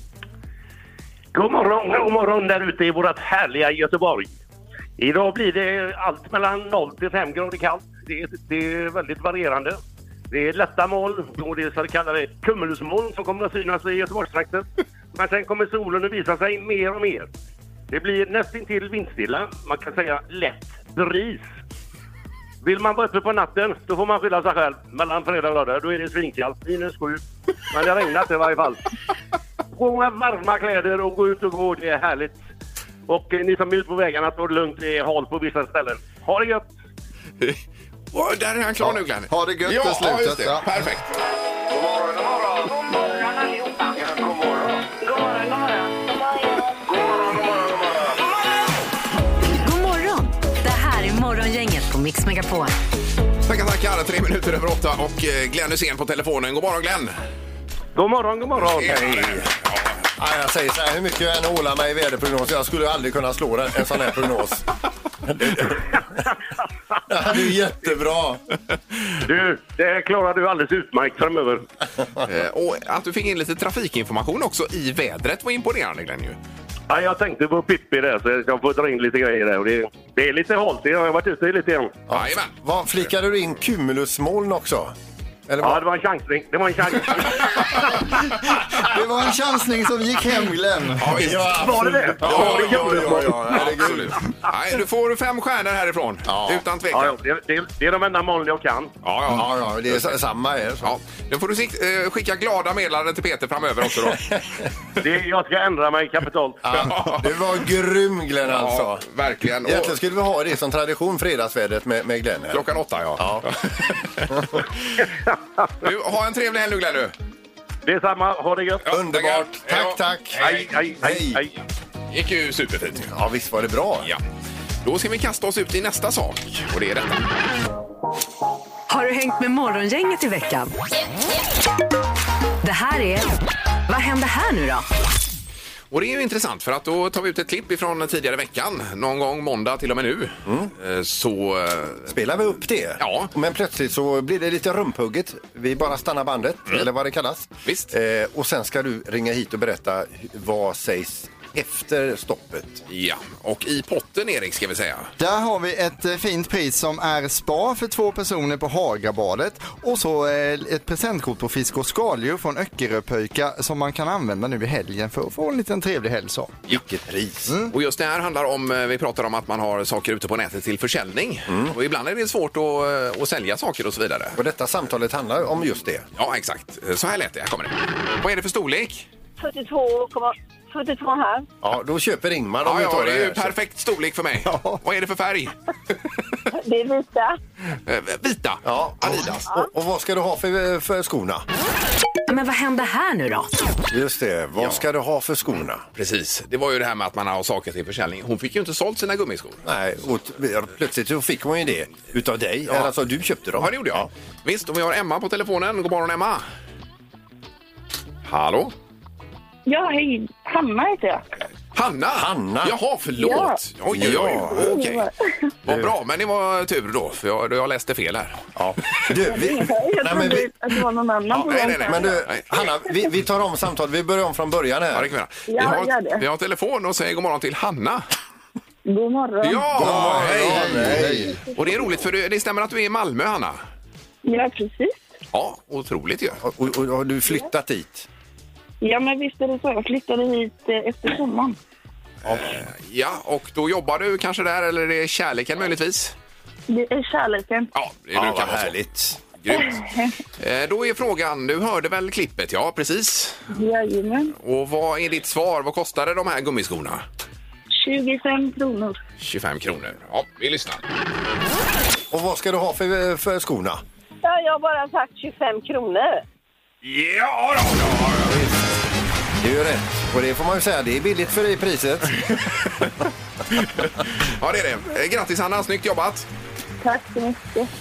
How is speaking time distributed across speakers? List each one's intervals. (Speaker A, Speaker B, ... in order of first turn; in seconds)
Speaker A: 1.3-4.3, 5.0-9.8, 10.3-17.3, 17.9-21.4, 22.6-28.8, 29.8-32.4, 33.1-36.7, 58.0-59.1, 69.2-71.7, 76.9-81.9, 85.6-87.5, 91.7-93.3, 96.9-99.0, 105.0-106.6, 117.8-118.9, 120.4-121.5
Speaker B: 38.1-41.1, 53.5-57.2, 58.8-59.9, 72.2-76.4, 82.1-82.5, 91.0-97.2, 99.0-100.2, 100.8-104.2, 106.7-107.3, 108.5-110.0, 112.5-114.7, 115.8-117.2, 118.9-120.9, 122.1-123.1, 124.8-127.3, 135.9-142.1, 143.0-143.3, 147.7-147.9, 152.9-155.1, 167.7-174.4, 176.2-179.1, 182.6-185.5, 187.8-189.5, 196.0-199.6, 203.6-206.4, 208.2-208.7, 211.8-215.0, 215.7-218.4, 221.3-222.6, 224.9-228.1, 229.4-230.9, 231.5-233.6, 235.3-236.4, 242.3-246.2, 247.8-248.8, 249.4-249.8, 250.4-253.4, 254.4-257.0, 259.2-260.8, 266.8-268.4, 273.6-276.3
Speaker C: 38.8-40.7, 88.8-91.2, 155.2-166.6, 167.5-167.7, 184.5-184.8, 229.8-231.4
Speaker D: 49.5-52.7, 128.9-130.7, 132.6-133.3, 133.9-134.9, 192.3-193.6
Speaker E: 58.9-59.5, 60.2-64.7, 65.3-66.2, 67.1-68.4, 82.1-85.0, 85.5-85.8, 91.1-94.2, 96.3-96.6, 99.3-100.9, 104.0-104.7, 106.6-109.0, 109.6-112.7, 113.2-113.5, 118.9-120.5, 121.0-121.4, 123.1-124.1, 140.5-140.7, 142.1-152.8, 166.7-167.5, 171.5-171.8, 174.3-176.1, 181.6-183.5, 188.6-191.4, 193.9-195.8, 199.6-204.1, 212.1-212.8, 213.9-214.7, 215.7-215.9, 218.6-220.5, 221.8-225.1, 229.8-231.4, 236.4-238.1, 248.1-249.2, 262.1-263.8, 269.4-272.1
Speaker F: 179.4-181.4, 264.2-266.2
Speaker G: 186.5-187.4, 209.7-211.2, 213.2-213.6, 214.3-215.5, 219.3-222.2, 225.5-226.2, 228.9-229.7, 234.2-235.1, 238.8-241.6, 246.7-247.7, 249.5-250.2, 253.5-254.3, 257.7-259.0, 276.8-277.7